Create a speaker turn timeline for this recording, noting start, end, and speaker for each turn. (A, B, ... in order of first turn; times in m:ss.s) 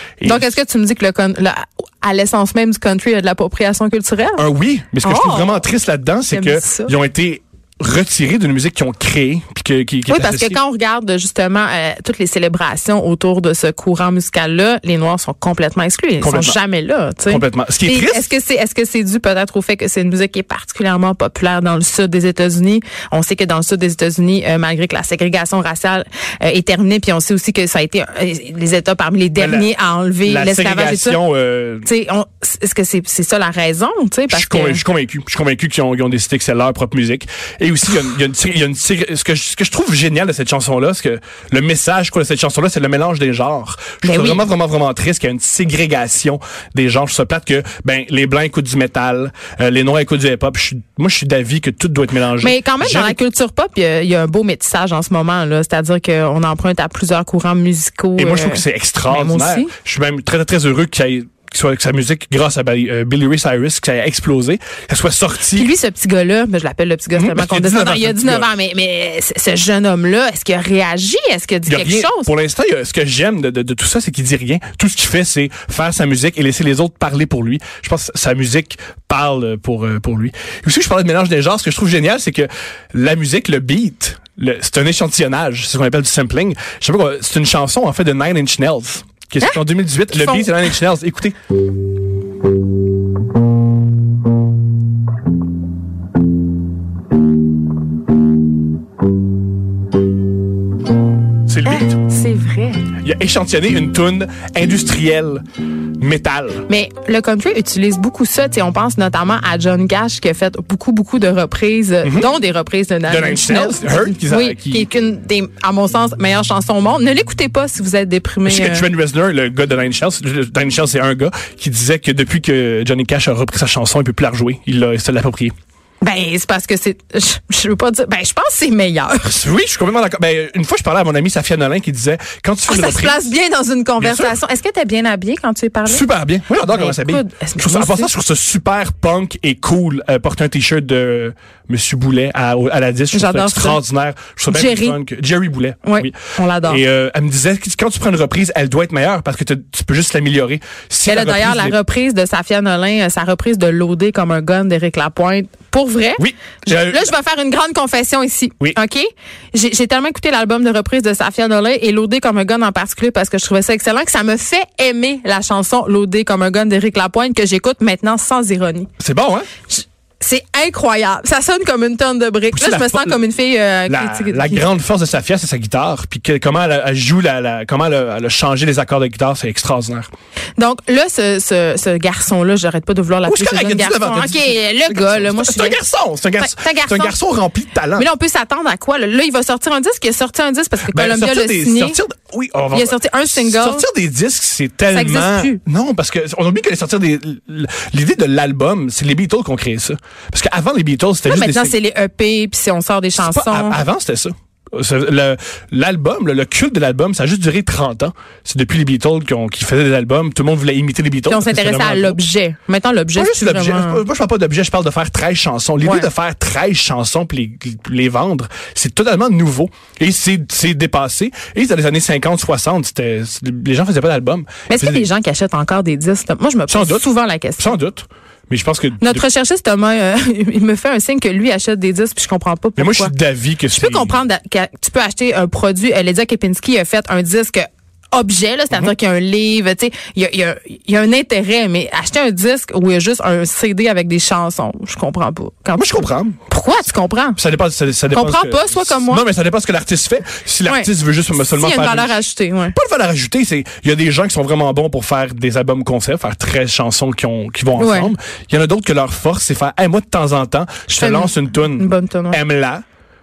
0:00.2-0:00.6 A
0:00.2-0:04.4 B
0:04.4-0:10.6 A
0:05.0-0:05.7 B
0:06.3-0:06.9 B
0:10.1-0:31.2 B
0:16.2-0:16.6 A
0:17.3-0:18.3 A
0:29.4-0:29.7 A
0:30.2-0:31.9 A
0:31.8-0:34.8 B
0:34.3-0:53.2 A
0:44.0-0:44.5 B
0:52.4-0:59.7 B
0:58.2-1:05.7 A
1:05.5-1:12.3 B
1:07.1-1:08.5 A
1:11.7-1:31.4 A
1:29.4-1:30.7 B
1:41.5-1:42.0 A
1:41.6-1:42.9 B
1:43.0-1:45.4 A
1:46.0-1:46.7 A
1:46.7-1:58.9 B
1:52.0-1:52.3 A
1:53.1-1:54.9 A
1:58.4-2:05.5 A
2:06.0-2:09.3 B
2:09.2-2:13.3 A
2:12.7-2:16.1 B
2:14.0-2:14.4 A
2:15.8-2:31.8 A
2:16.6-2:18.1 B
2:23.1-2:23.8 B
2:24.5-2:25.0 B
2:25.8-2:26.8 B
2:31.1-2:48.9 B
2:36.2-2:37.1 A
2:49.0-2:49.5 A
2:49.7-2:54.7 B
2:52.5-2:53.2 A
2:53.9-3:00.1 A
3:00.6-3:05.8 B
3:03.3-3:08.1 A
3:06.4-3:07.2 B
3:08.0-3:12.0 B
3:10.9-3:21.7 A
3:12.7-3:13.8 B
3:14.9-3:15.6 B
3:21.3-3:23.8 B
3:23.2-3:32.2 A
3:31.3-3:34.0 B
3:33.2-3:45.1 A
3:35.8-3:36.1 B
3:44.7-3:47.7 B
3:46.7-3:47.1 A
3:47.6-3:49.2 A
3:49.0-3:53.1 B
3:52.8-3:54.2 A
3:53.7-4:07.4 B
4:05.8-4:06.4 A
4:07.4-4:22.8 A
4:08.1-4:09.2 B
4:10.7-4:12.8 B
4:17.8-4:18.1 B
4:21.0-4:22.4 B